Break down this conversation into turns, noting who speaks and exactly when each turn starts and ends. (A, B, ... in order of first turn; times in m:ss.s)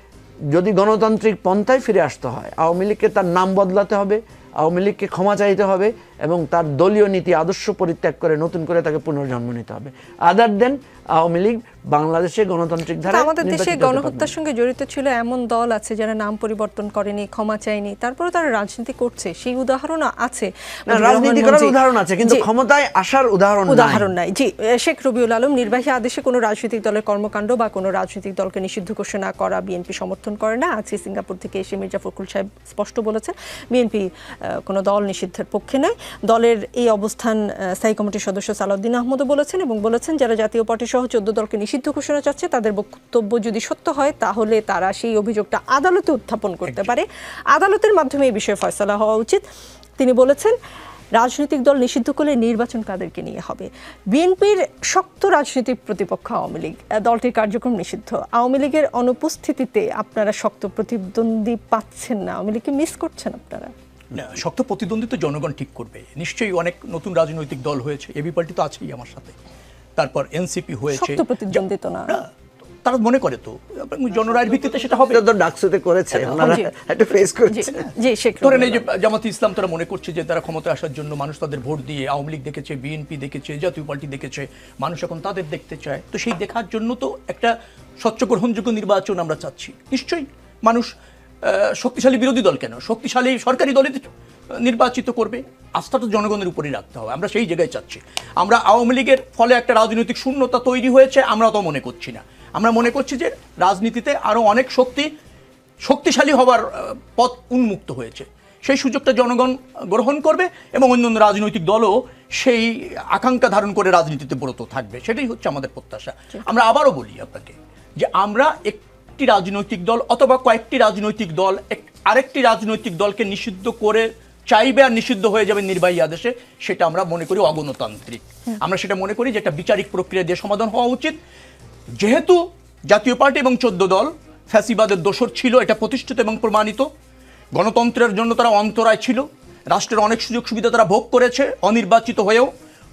0:00.5-0:14.3 A
0:13.1-0:22.4 B
0:20.9-0:24.1 A
0:23.7-0:49.4 B
0:50.0-0:50.5 B
0:51.2-1:03.7 B
1:04.1-1:09.3 C
1:10.0-1:12.2 C
1:10.9-1:12.2 B
1:12.8-1:15.2 C
1:15.1-1:17.8 A
1:16.4-1:16.7 B
1:17.5-1:18.8 B
1:18.4-1:30.9 C
1:31.4-1:45.1 C
1:45.8-2:11.2 C
2:12.0-2:16.9 C
2:17.5-2:22.5 C